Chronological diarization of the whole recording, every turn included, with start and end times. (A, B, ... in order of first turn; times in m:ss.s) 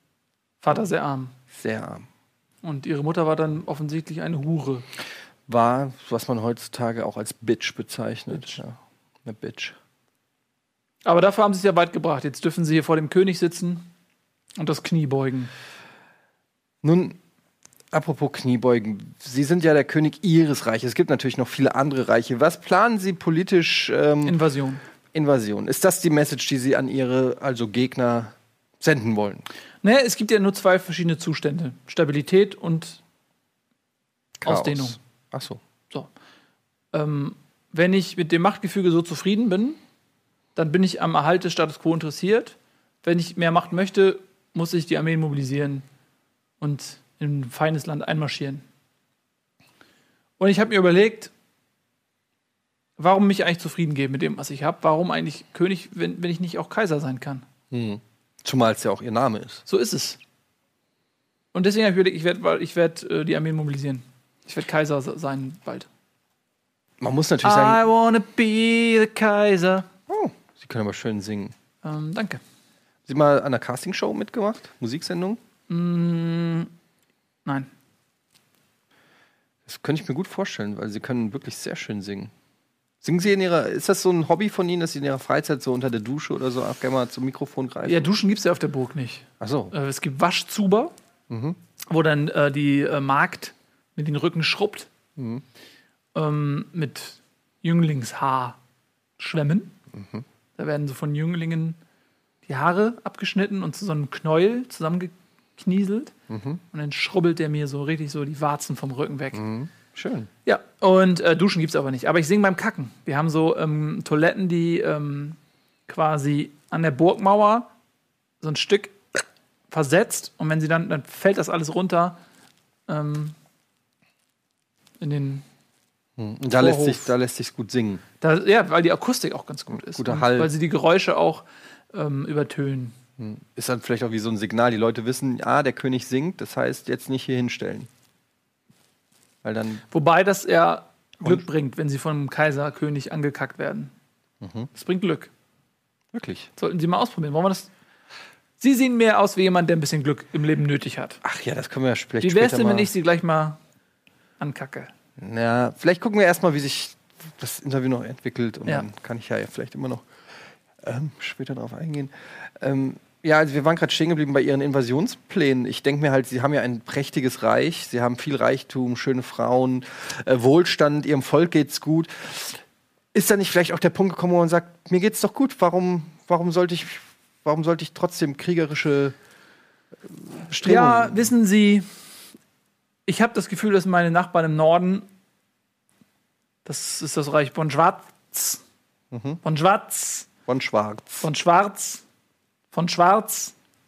0:00.6-0:01.3 A
0:01.5-0:02.0 B
0:02.6-0:04.8 A
0:05.5-0:09.8 B
0:11.0-0:13.9 A
0:14.6-0:15.5 A
0:16.8-0:17.2 B
0:17.9-0:24.4 B
0:24.2-0:24.8 A
0:25.1-0:29.4 B
0:29.8-0:33.0 A
0:34.4-0:35.6 B
0:34.4-0:35.0 A
0:36.9-0:39.8 A
0:40.6-0:45.8 A
0:46.6-0:48.6 A
0:50.4-0:51.3 A
0:53.0-0:57.4 A
0:57.7-0:59.6 B
0:59.7-1:00.2 A
1:01.5-1:05.9 A
1:07.0-1:07.8 B
1:07.4-1:09.9 A
1:10.1-1:11.5 B
1:11.8-1:12.4 A
1:13.0-1:15.4 B
1:15.7-1:16.7 A
1:19.6-1:22.3 B
1:23.0-1:28.1 B
1:27.8-1:30.9 A
1:29.4-1:29.7 B
1:31.3-1:31.6 B
1:31.9-1:34.9 A
1:35.2-1:35.4 B
1:36.1-1:38.6 A
1:39.2-1:39.8 A
1:39.9-1:40.2 B
1:40.6-1:41.8 A
1:42.4-1:46.1 A
1:46.3-1:46.6 B
1:46.7-1:49.4 A
1:49.3-1:50.3 B
1:50.4-1:57.7 A
1:58.4-1:59.0 A
1:59.7-2:02.2 A
2:02.9-2:03.3 A
2:05.0-2:05.4 A
2:06.2-2:08.0 B
2:06.6-2:07.1 A
2:08.2-2:13.0 A
2:09.7-2:10.5 B
2:13.2-2:17.9 B
2:19.4-2:19.8 B
2:19.9-2:23.9 A
2:21.2-2:21.4 B
2:24.4-2:24.7 B
2:24.7-2:25.3 A
2:26.1-2:26.5 B
2:26.6-2:27.7 A
2:28.6-2:31.2 A
2:31.2-2:32.9 B
2:32.2-2:33.6 A
2:34.4-2:34.9 A
2:35.2-2:40.0 B
2:40.8-2:52.6 B
2:53.1-2:59.1 B
3:00.3-3:01.3 B
3:00.6-3:01.8 A
3:03.1-3:05.0 A
3:06.6-3:08.6 A
3:09.1-3:09.4 B
3:09.4-3:10.3 A
3:10.5-3:11.3 B
3:11.2-3:12.0 A
3:12.7-3:13.5 A